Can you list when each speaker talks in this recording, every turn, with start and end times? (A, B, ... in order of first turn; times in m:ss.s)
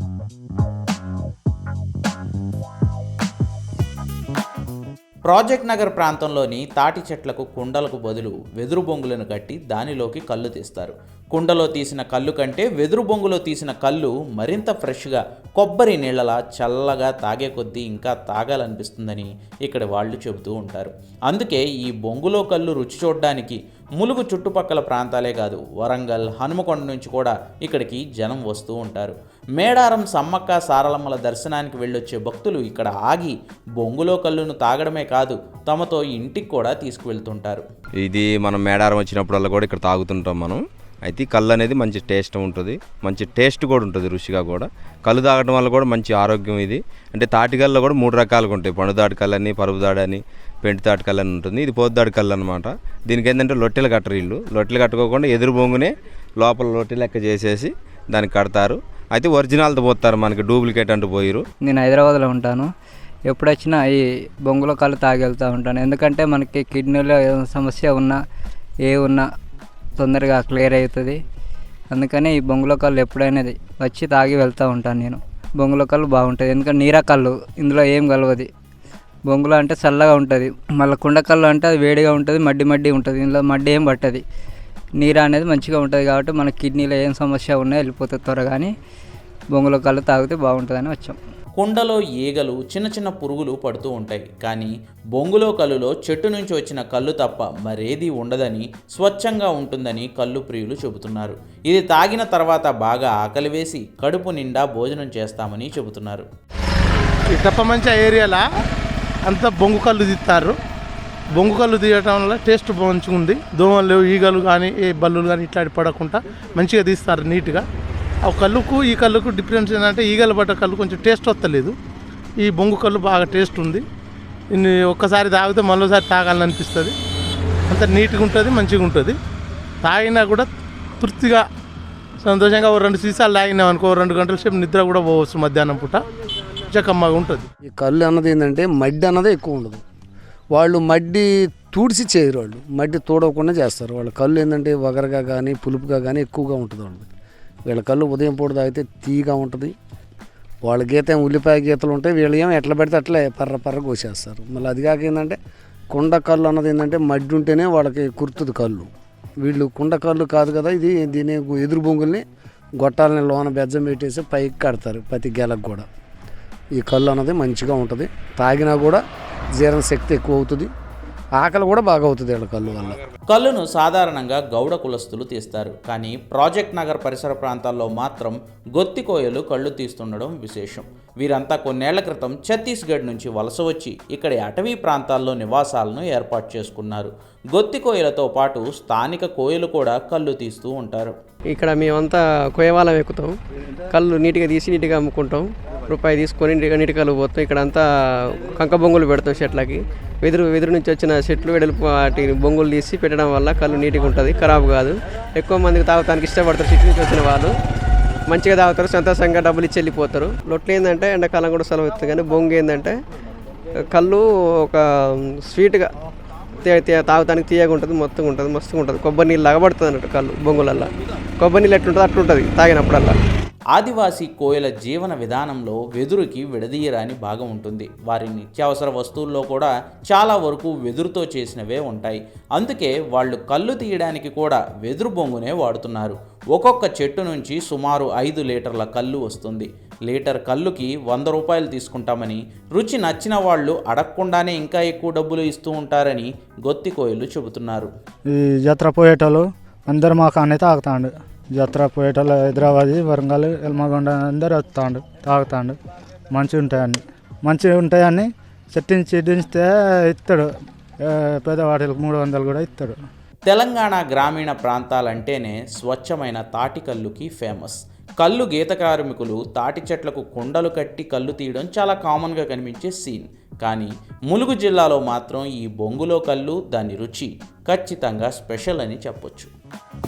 0:05.3-0:37.6 A
0:38.0-0:55.9 B
0:56.4-1:01.4 B
1:01.6-1:02.7 C
1:03.3-1:08.2 C
1:08.9-1:09.3 C
1:10.0-1:11.2 C
1:11.9-1:18.5 C
1:19.3-1:24.2 C
1:25.0-1:28.7 C
1:29.5-1:31.2 C
1:31.6-1:46.3 A
1:47.3-1:48.4 D
1:49.3-1:50.6 D
1:51.4-1:57.6 D
1:58.3-2:01.8 D
2:02.4-2:03.8 D
2:04.5-2:07.0 D
2:07.7-2:09.2 D
2:09.8-2:10.5 D
2:11.0-2:11.4 D
2:12.2-2:16.0 D
2:16.7-2:17.5 D
2:17.7-2:19.8 E
2:20.5-2:27.1 E
2:27.7-2:29.8 E
2:30.6-2:35.4 E
2:35.9-2:38.9 E
2:39.4-2:42.2 E
2:42.8-2:45.9 E
2:46.8-2:49.0 E
2:49.6-2:50.7 E
2:51.4-2:53.0 E
2:53.3-3:11.1 A
3:11.5-3:13.4 F
3:13.9-3:27.6 F
3:28.3-3:33.0 F
3:33.8-3:35.9 F
3:36.6-3:43.2 F
3:43.8-4:07.9 A
4:08.3-4:15.8 G
4:16.3-4:20.5 G
4:21.0-4:23.0 G
4:23.5-4:39.5 A